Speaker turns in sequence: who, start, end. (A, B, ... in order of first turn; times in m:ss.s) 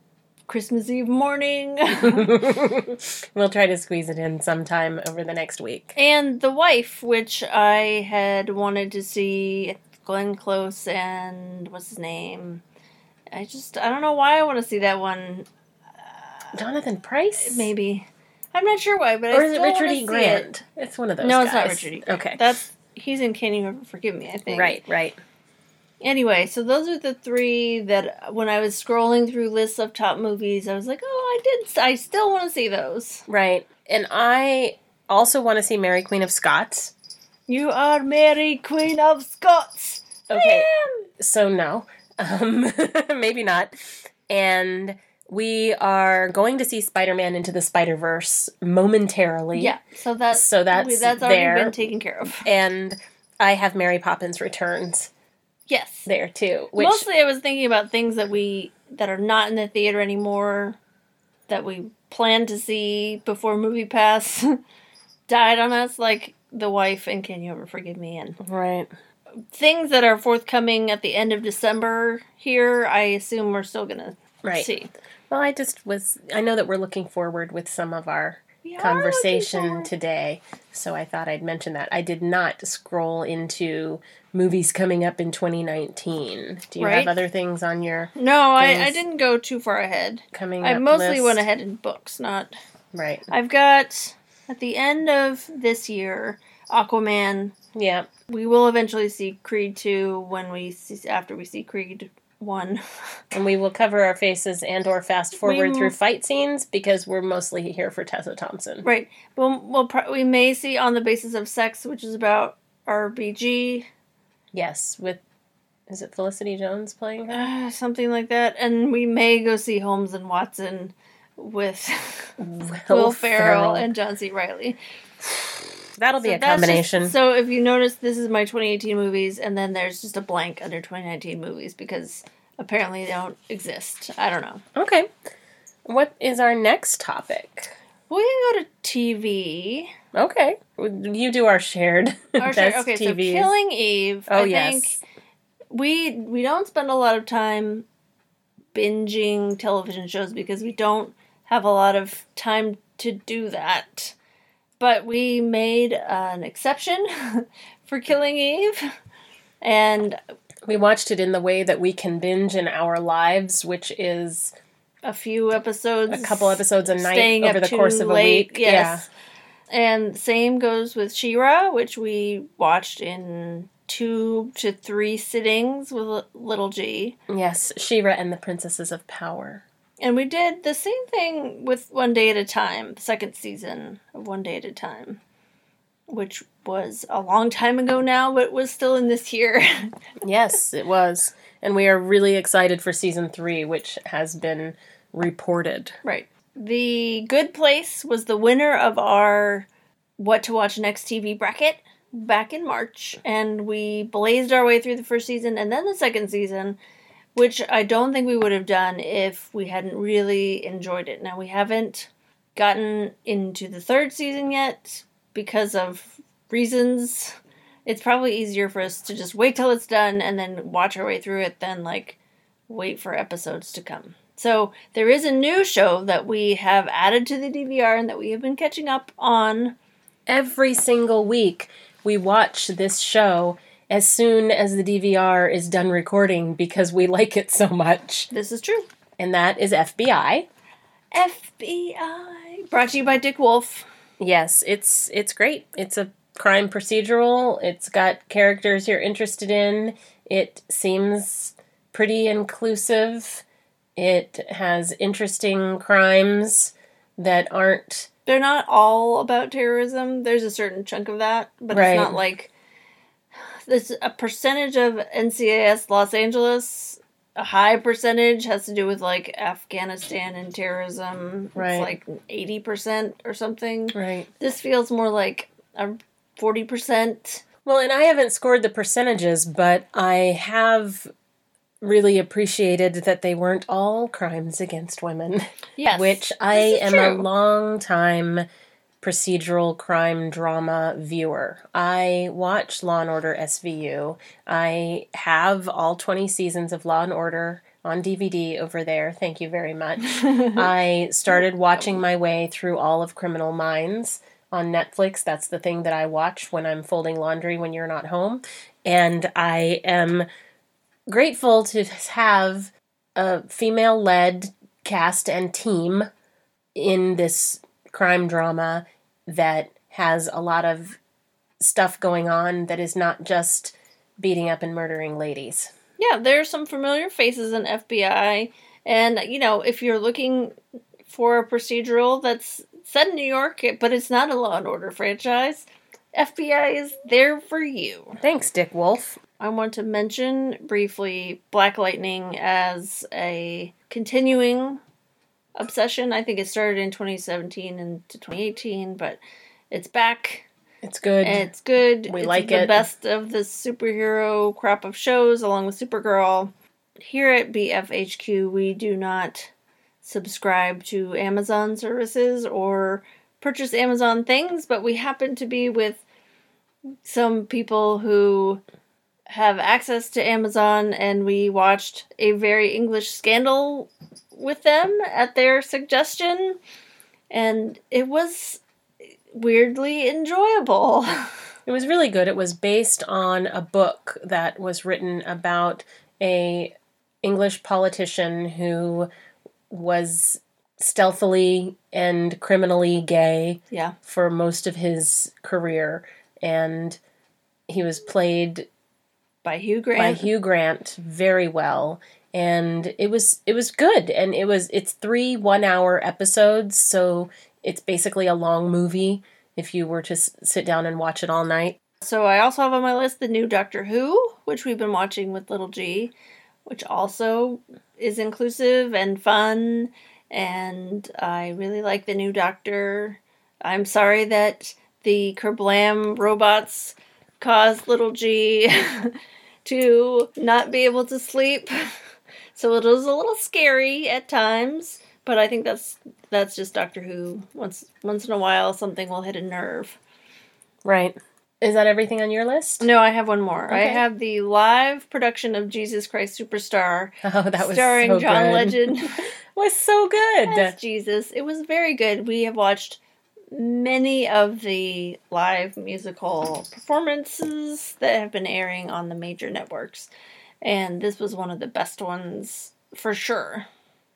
0:00.5-0:02.4 A
0:02.0-0:06.0 B
0:06.0-0:12.6 A
0:13.3-0:15.5 A
0:16.5-0:17.7 B
0:17.4-0:20.5 A
0:19.3-0:22.4 B
0:21.2-0:24.8 A
0:24.5-0:25.2 B
0:26.0-0:33.3 A
0:33.3-0:36.9 B
0:37.5-0:41.1 A
0:40.3-0:40.7 B
0:41.2-0:49.8 B
0:49.6-0:52.5 A
0:50.3-0:51.8 B
0:52.4-0:55.1 B
0:55.7-0:56.1 A
0:56.1-0:57.1 B
0:56.8-1:00.8 A
1:01.5-1:04.6 A
1:05.3-1:08.4 A
1:08.4-1:08.9 B
1:09.5-1:14.9 A
1:15.3-1:29.0 B
1:18.6-1:19.9 A
1:26.8-1:27.1 A
1:28.2-1:32.5 A
1:30.3-1:31.4 B
1:32.9-1:33.3 B
1:33.3-1:37.5 A
1:37.7-1:38.1 B
1:38.3-1:43.2 A
1:43.3-1:48.8 B
1:45.4-1:45.9 A
1:48.8-1:53.9 A
1:54.5-1:55.2 B
1:55.9-1:57.5 B
1:57.3-2:02.3 A
2:02.4-2:03.9 B
2:02.9-2:04.8 A
2:06.0-2:07.2 B
2:06.2-2:14.6 A
2:14.8-2:15.1 B
2:15.9-2:17.8 B
2:18.1-2:20.0 A
2:20.1-2:23.5 B
2:22.4-2:25.0 A
2:24.3-2:25.0 B
2:25.7-2:27.9 A
2:28.7-2:34.2 A
2:34.8-2:38.8 A
2:39.6-2:40.2 A
2:40.7-2:44.5 B
2:45.0-2:49.0 A
2:46.1-2:49.1 B
2:49.7-2:57.2 A
2:57.3-2:59.6 B
3:00.0-3:05.2 A
3:06.1-3:09.9 A
3:10.2-3:16.0 B
3:16.0-3:26.8 A
3:27.4-3:37.4 A
3:37.9-3:42.2 A
3:42.7-3:49.8 A
3:50.3-3:58.3 B
3:58.3-3:58.9 A
3:59.2-4:00.5 B
4:01.1-4:03.9 A
4:04.2-4:13.4 B
4:14.0-4:18.1 B
4:18.3-4:22.5 A
4:21.7-4:22.2 B
4:23.7-4:37.4 A
4:31.6-4:31.9 B
4:33.9-4:34.3 B
4:37.6-4:41.1 B
4:41.8-4:48.4 B
4:45.8-4:47.2 A
4:49.0-5:10.2 B
5:11.1-5:16.1 B
5:16.8-5:21.0 B
5:21.6-5:25.7 B
5:26.0-5:30.5 A
5:31.1-5:38.2 A
5:38.2-5:39.2 B
5:39.4-5:44.8 A
5:45.6-5:49.2 A
5:49.7-5:50.5 A
5:50.8-5:51.5 B
5:51.2-5:59.5 A
5:52.1-5:52.9 B
6:00.0-6:06.0 A
6:07.0-6:08.6 A
6:09.3-6:16.6 A
6:17.3-6:18.6 A
6:19.3-6:21.3 A
6:21.7-6:29.1 B
6:29.7-6:37.0 B
6:37.7-6:38.7 B
6:39.4-6:40.3 A
6:40.0-6:51.8 B
6:52.0-6:56.1 A
6:56.7-7:12.0 A
7:12.6-7:20.0 A
7:20.8-7:22.9 B
7:22.8-7:29.2 A
7:23.7-7:24.0 B
7:27.2-7:30.8 B
7:30.5-7:33.0 A
7:33.5-7:40.1 A
7:40.6-7:43.7 A